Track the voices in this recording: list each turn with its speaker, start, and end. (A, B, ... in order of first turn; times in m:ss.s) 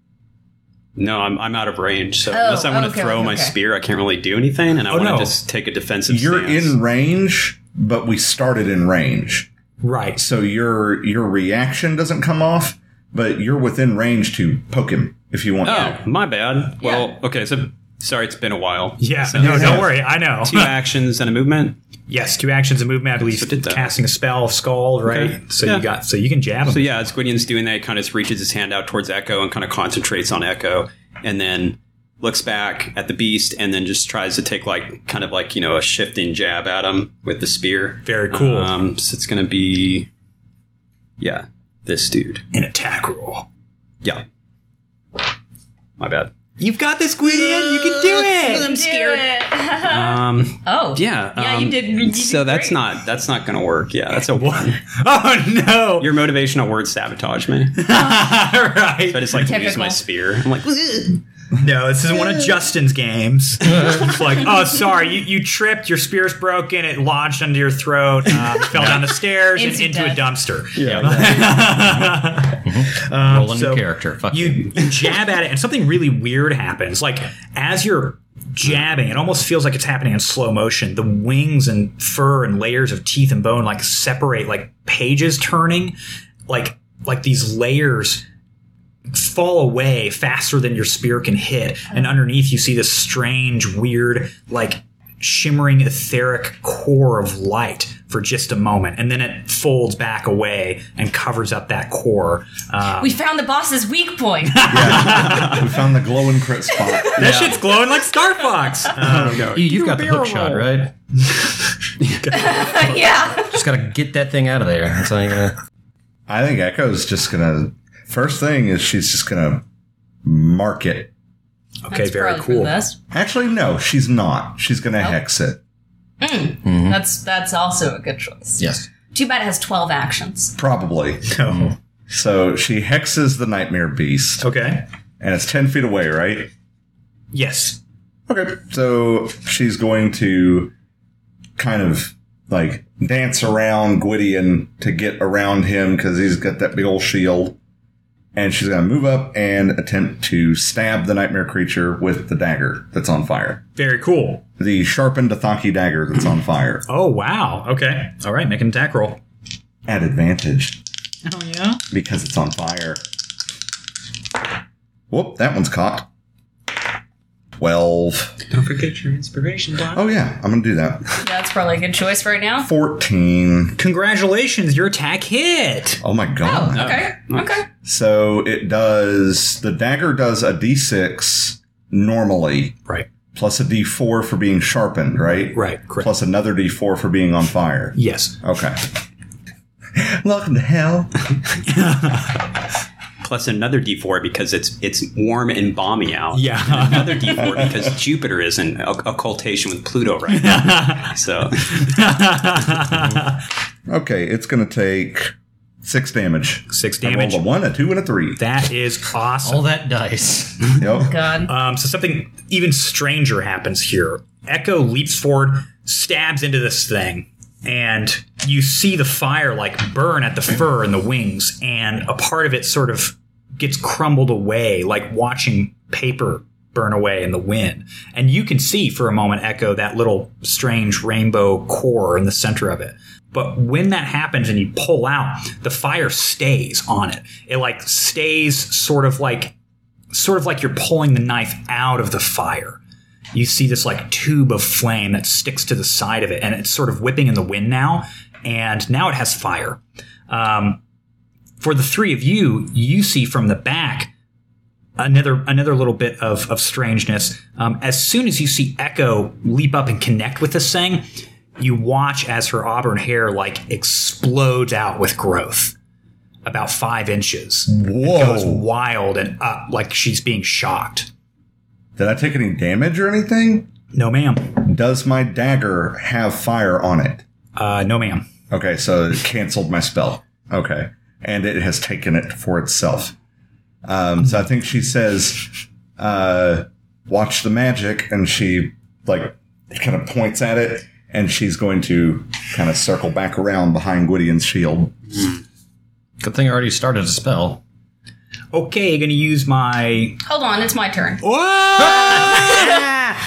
0:01.0-0:06.8 A
0:02.3-0:03.6 B
0:04.9-0:05.4 C
0:06.1-0:09.5 D
0:09.8-0:10.2 C
0:10.2-0:16.0 D
0:15.6-0:21.8 A
0:15.7-0:16.0 B
0:16.8-0:17.1 B
0:19.0-0:20.7 C
0:22.1-0:27.1 C
0:23.2-0:24.0 A
0:25.1-0:25.8 A
0:26.6-0:40.1 A
0:38.0-0:38.7 C
0:41.2-0:42.4 A
0:42.5-0:43.5 C
0:46.0-0:46.3 A
0:46.6-0:49.2 C
0:47.7-0:49.2 A
0:48.4-0:52.8 B
0:49.8-0:54.8 A
0:54.4-0:56.1 C
0:56.0-0:57.8 A
0:57.8-0:59.5 C
0:59.1-1:01.2 A
0:59.4-1:00.0 B
1:01.6-1:26.0 C
1:09.5-1:10.2 B
1:10.8-1:14.9 E
1:10.8-1:11.6 A
1:26.5-1:28.2 C
1:29.1-1:43.2 C
1:43.0-1:45.1 B
1:44.5-1:45.6 C
1:44.7-1:47.5 D
1:46.8-1:47.5 B
1:47.2-1:49.6 C
1:49.0-1:50.6 A
1:49.5-1:50.9 E
1:52.2-1:52.9 C
1:52.3-1:53.6 B
1:53.5-1:55.6 E
1:56.3-1:59.6 D
2:00.2-2:01.1 D
2:01.9-2:02.8 C
2:01.9-2:03.0 B
2:03.1-2:05.6 D
2:06.2-2:10.6 B
2:06.6-2:07.0 E
2:08.6-2:08.9 E
2:10.6-2:11.4 D
2:11.3-2:11.7 C
2:12.1-2:14.5 D
2:14.4-2:14.8 C
2:15.2-2:16.5 D
2:17.3-2:17.8 C
2:18.3-2:20.7 D
2:21.6-2:27.6 D
2:28.4-2:33.6 D
2:33.8-2:34.4 C
2:34.6-2:36.8 D
2:36.9-2:39.2 C
2:39.9-2:40.8 D
2:41.2-2:41.8 C
2:41.9-2:43.0 D
2:45.1-2:46.1 D
2:47.6-2:48.4 D
2:48.5-2:50.1 A
2:49.9-2:51.1 D
2:51.2-2:52.7 B
2:52.6-2:53.8 D
2:53.8-2:56.0 C
2:56.0-2:57.0 D
2:56.4-2:57.7 B
2:56.7-2:57.6 A
2:57.8-3:02.8 D
3:03.3-3:08.8 D
3:05.5-3:06.1 C
3:08.0-3:08.4 C
3:10.0-3:11.1 D
3:11.6-3:12.4 C
3:13.2-3:21.9 A
3:16.3-3:17.4 C
3:17.4-3:17.8 D
3:20.3-3:21.1 C
3:21.7-3:23.4 C
3:23.9-3:28.4 D
3:26.7-3:27.5 C
3:28.4-3:29.7 C
3:29.4-3:30.8 E
3:30.8-3:31.2 D
3:30.9-3:31.5 B
3:31.5-3:59.5 C
4:00.1-4:02.8 C
4:03.3-4:10.8 C
4:11.6-4:14.1 C
4:15.0-4:21.0 C
4:21.6-4:25.8 C
4:26.4-4:31.1 C
4:27.7-4:28.6 D
4:32.0-4:33.7 D
4:33.9-4:34.6 C
4:34.6-4:37.2 D
4:37.6-4:38.3 C
4:38.5-4:43.2 D
4:43.8-4:55.0 D
4:56.2-4:57.6 E
4:58.5-5:00.2 C
5:00.2-5:01.2 B
5:01.2-5:02.8 C
5:02.1-5:02.8 B